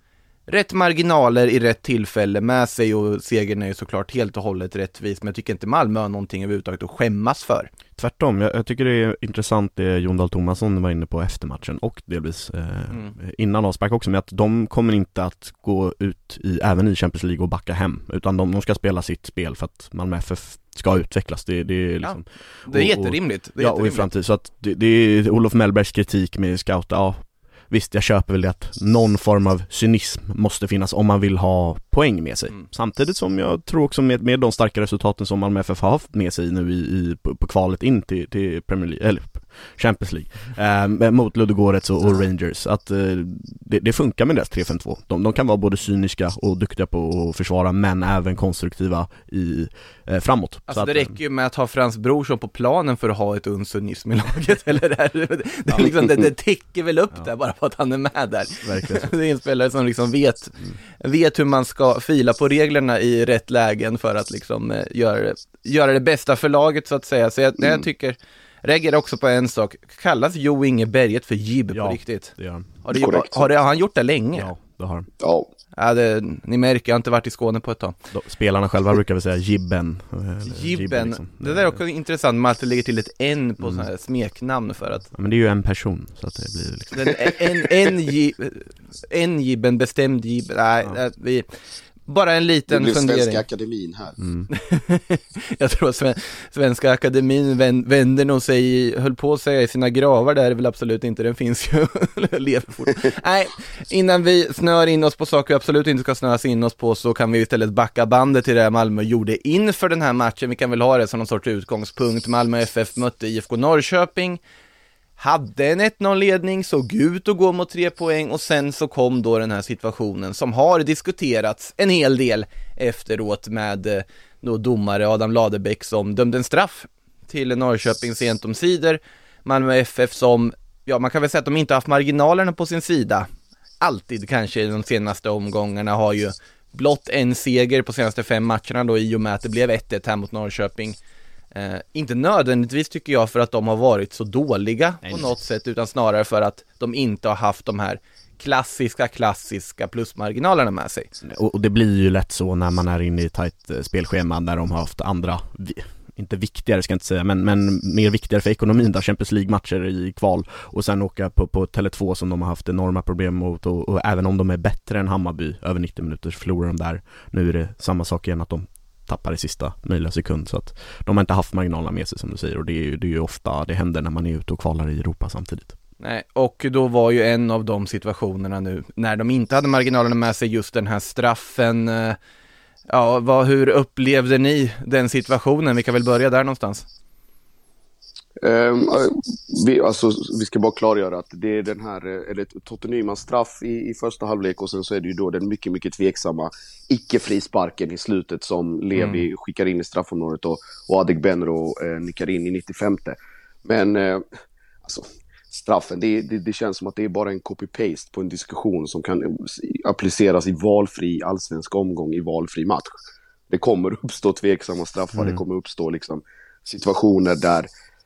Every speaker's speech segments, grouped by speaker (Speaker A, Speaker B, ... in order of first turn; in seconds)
Speaker A: 0.5-7.7, 22.0-24.1, 50.7-74.5, 75.8-78.0, 80.5-85.1, 86.9-91.5, 92.1-93.4, 94.5-114.4, 115.2-133.3, 133.8-141.0, 141.5-151.1, 176.0-182.2, 182.9-186.9, 199.0-199.2
Speaker B: 8.0-51.1, 58.6-59.1, 71.7-72.7, 74.3-75.1, 78.1-81.8, 83.6-83.9, 85.1-87.1, 94.2-94.5, 151.2-175.7, 215.1-215.4
Speaker C: 55.8-56.2, 67.6-67.8, 72.9-73.5, 75.2-75.5, 92.7-94.2, 188.4-204.2, 204.8-212.9, 213.5-217.7